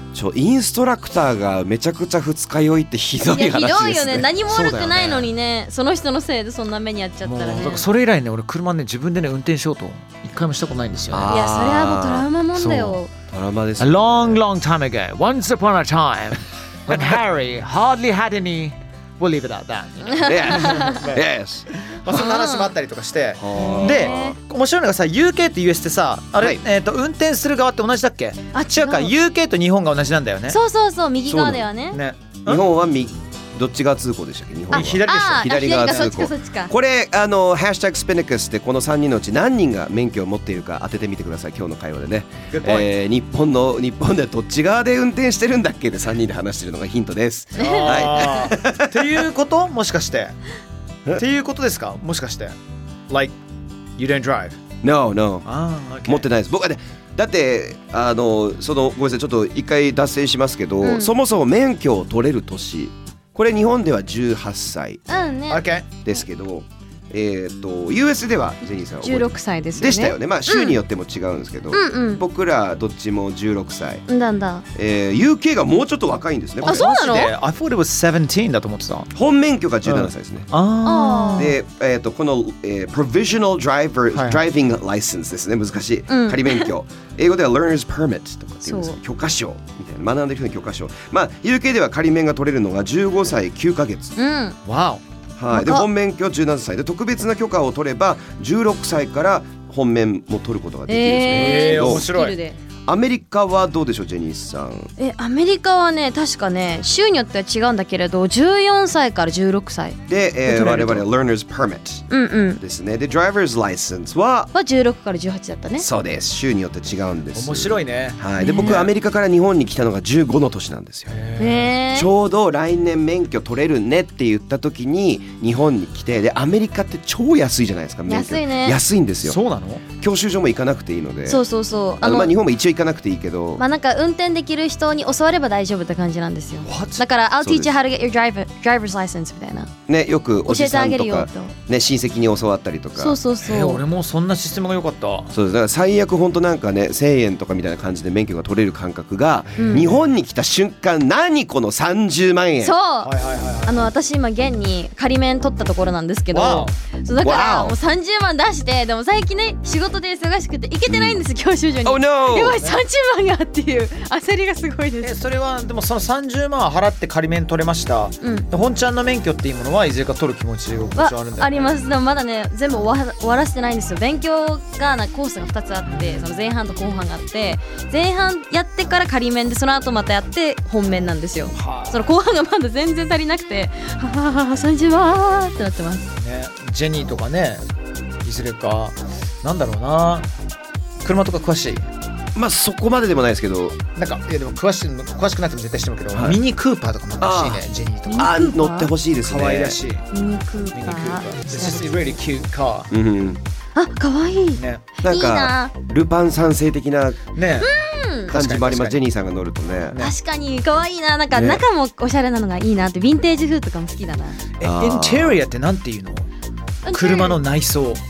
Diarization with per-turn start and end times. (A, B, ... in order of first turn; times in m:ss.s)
0:00.1-0:04.3 A
0:03.2-0:07.9 B
0:04.5-0:05.3 C
0:07.2-0:11.4 C
0:11.1-0:12.3 A
0:11.3-0:13.1 B
0:12.5-0:13.0 C
0:13.3-0:14.4 A
0:13.8-0:30.6 C
0:20.1-0:21.0 B
0:20.2-0:21.7 A
0:22.1-0:22.7 B
0:23.4-0:24.4 A
0:23.5-0:24.4 B
0:28.5-0:29.1 B
0:30.5-0:32.0 B
0:31.2-0:31.7 A
0:31.9-0:32.6 C
0:32.5-0:49.2 A
0:34.7-0:36.1 C
0:34.7-0:36.7 B
0:42.5-0:42.9 C
0:47.6-0:50.4 C
0:47.6-0:48.0 B
0:51.2-0:52.6 C
0:53.1-0:53.4 C
0:54.0-0:54.6 C
0:54.8-0:55.5 A
0:55.5-0:56.2 C
0:56.0-1:05.0 A
1:00.8-1:01.1 B
1:05.1-1:05.6 B
1:05.5-1:05.9 C
1:06.0-1:14.0 A
1:09.0-1:10.8 B
1:11.7-1:12.2 B
1:14.1-1:14.6 B
1:14.8-1:16.9 A
1:16.6-1:19.1 C
1:16.6-1:17.3 B
1:19.1-1:20.5 A
1:19.8-1:21.6 C
1:20.8-1:21.5 B
1:21.4-1:34.2 A
1:24.1-1:24.4 C
1:26.1-1:26.7 B
1:28.6-1:29.0 B
1:34.2-1:34.6 B
1:34.6-1:35.0 C
1:35.4-1:42.1 A
1:35.5-1:35.9 B
1:40.9-1:42.6 B
1:41.3-1:42.4 C
1:42.9-1:44.9 A
1:45.0-1:50.0 B
1:50.1-1:52.1 A
1:50.5-1:51.1 C
1:52.1-1:52.6 B
1:52.6-1:54.5 A
1:54.5-1:55.9 B
1:55.8-2:01.1 A
1:57.4-1:58.7 C
1:58.4-1:58.9 B
2:01.1-2:01.8 C
2:01.4-2:02.1 B
2:01.9-2:09.4 A
2:08.1-2:08.8 B
2:09.2-2:09.8 C
2:09.9-2:11.4 A
2:11.2-2:12.3 B
2:12.0-2:13.6 A
2:13.6-2:19.7 B
2:16.6-2:17.0 C
2:17.4-2:17.7 A
2:19.9-2:23.2 A
2:20.5-2:21.5 B
2:23.0-2:23.8 B
2:23.4-2:25.3 C
2:25.3-2:32.8 A
2:29.6-2:29.9 B
2:29.6-2:30.0 C
2:32.6-2:33.1 B
2:33.0-2:33.9 C
2:33.6-2:45.1 B
2:36.3-2:36.8 C
2:37.2-2:37.8 A
2:40.9-2:41.2 A
2:41.8-2:42.6 A
2:45.0-2:51.7 C
2:48.2-2:48.5 B
2:51.0-3:06.1 B
2:55.8-2:56.4 C
3:01.5-3:02.0 C
3:06.2-3:07.6 C
3:08.2-3:10.3 C
3:11.0-3:11.8 C
3:12.4-3:13.8 A
3:14.0-3:18.3 C
3:16.1-3:16.4 A
3:17.2-3:17.6 A
3:18.1-3:18.9 B
3:18.1-3:19.8 A
3:19.2-3:20.0 C
3:20.1-3:21.9 B
3:20.7-3:22.9 C
3:22.9-3:23.4 A
3:23.8-3:25.7 B
3:24.6-3:24.8 C
3:25.0-3:27.2 A
3:27.4-3:27.7 C
3:27.6-3:28.3 B
3:28.3-3:29.0 C
3:28.3-3:30.0 A
3:30.0-3:34.4 B
3:31.3-3:31.6 A
3:34.6-3:36.3 C
3:34.6-3:35.4 A
3:36.8-3:37.4 B
3:36.9-3:38.0 C